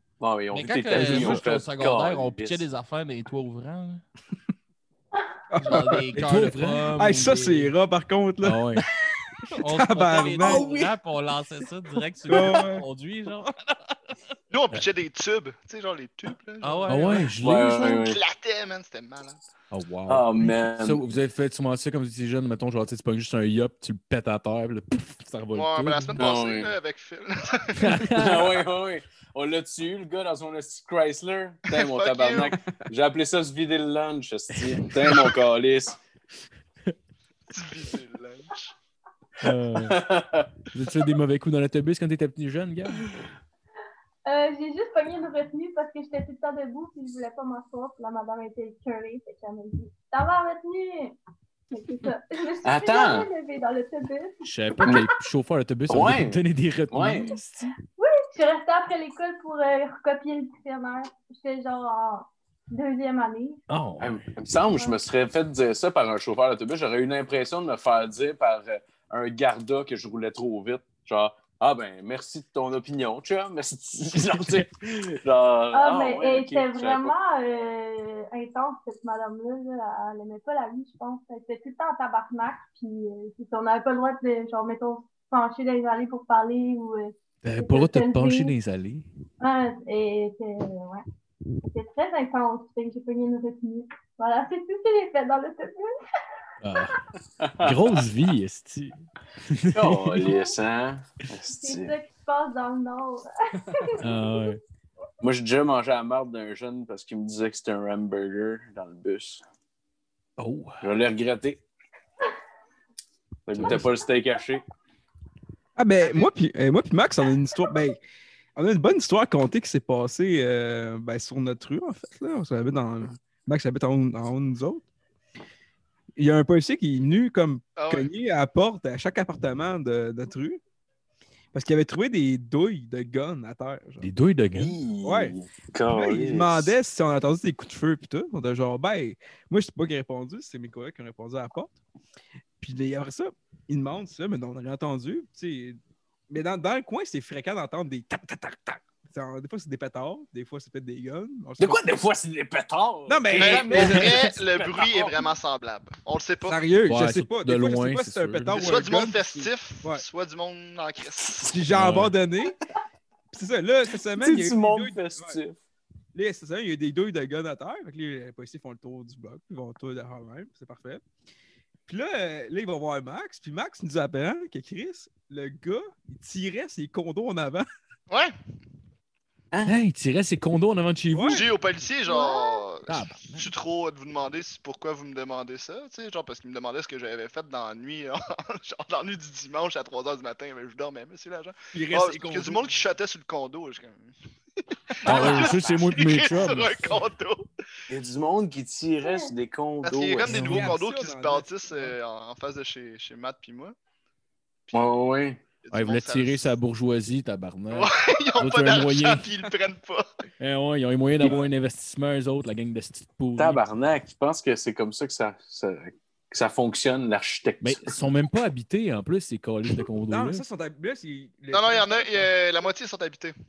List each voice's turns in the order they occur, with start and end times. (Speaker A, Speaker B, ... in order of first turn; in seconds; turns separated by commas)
Speaker A: 0.2-2.6, Speaker B: 0.5-4.0, Speaker C: 0.9-1.4, Speaker D: 5.5-6.3, Speaker B: 5.6-7.7, Speaker C: 6.1-7.1, Speaker D: 6.9-8.6, Speaker C: 8.4-8.8, Speaker D: 9.4-10.8, Speaker B: 9.5-13.9, Speaker A: 10.4-10.8, Speaker D: 12.3-12.8, Speaker E: 14.5-19.4, Speaker B: 16.6-17.3, Speaker C: 16.9-18.0, Speaker A: 17.4-18.2, Speaker C: 19.7-26.2, Speaker A: 20.1-21.0, Speaker E: 25.5-28.1, Speaker A: 26.1-26.7, Speaker C: 27.8-28.5, Speaker A: 28.1-36.0, Speaker E: 31.7-32.5, Speaker C: 34.6-34.8, Speaker E: 37.5-38.7, Speaker C: 39.4-40.0, Speaker A: 39.7-40.5, Speaker C: 40.7-43.1, Speaker F: 44.2-51.1, Speaker F: 51.7-54.9, Speaker A: 52.6-53.3, Speaker C: 54.4-57.7, Speaker A: 55.9-57.3, Speaker F: 58.0-63.6, Speaker C: 63.7-64.2, Speaker A: 64.0-77.1, Speaker C: 74.3-74.6, Speaker F: 75.7-88.5, Speaker C: 87.4-89.1, Speaker F: 89.4-91.0, Speaker F: 91.6-95.9, Speaker C: 96.6-97.0, Speaker A: 97.4-97.9, Speaker C: 97.6-100.4, Speaker A: 99.7-101.9, Speaker F: 100.2-100.5, Speaker F: 101.5-104.3, Speaker C: 104.0-104.6, Speaker A: 105.2-109.4, Speaker C: 110.4-110.8, Speaker A: 110.8-111.6, Speaker A: 113.5-114.6, Speaker C: 113.5-113.9, Speaker D: 115.8-118.0, Speaker D: 118.5-124.8, Speaker D: 126.2-130.6, Speaker E: 127.8-128.1, Speaker D: 131.5-134.1, Speaker C: 134.0-134.8, Speaker A: 134.5-136.7, Speaker D: 135.0-135.3, Speaker D: 135.9-141.8, Speaker D: 142.6-151.8, Speaker A: 151.6-155.3, Speaker D: 153.1-154.3, Speaker E: 153.4-156.6, Speaker D: 156.4-160.0, Speaker C: 156.8-158.7, Speaker E: 158.5-161.5, Speaker D: 161.4-162.6, Speaker C: 161.7-162.1, Speaker D: 163.3-165.4, Speaker A: 164.2-165.6, Speaker D: 166.1-171.0, Speaker D: 171.9-177.7, Speaker E: 178.1-178.3, Speaker C: 179.6-181.4, Speaker D: 181.1-181.5, Speaker E: 181.3-194.1, Speaker F: 182.1-182.7, Speaker C: 182.9-183.5, Speaker D: 191.7-192.8, Speaker E: 194.9-197.4, Speaker C: 195.0-197.0, Speaker A: 195.1-195.7, Speaker A: 197.9-200.5, Speaker F: 199.0-199.3, Speaker E: 199.8-203.7, Speaker D: 200.3-201.9, Speaker C: 200.3-200.7, Speaker A: 204.7-205.4, Speaker E: 205.6-206.5, Speaker C: 205.7-209.3, Speaker E: 207.7-210.1, Speaker C: 210.4-213.6, Speaker A: 213.4-217.9, Speaker C: 217.6-220.4, Speaker D: 220.1-222.3, Speaker E: 221.5-223.3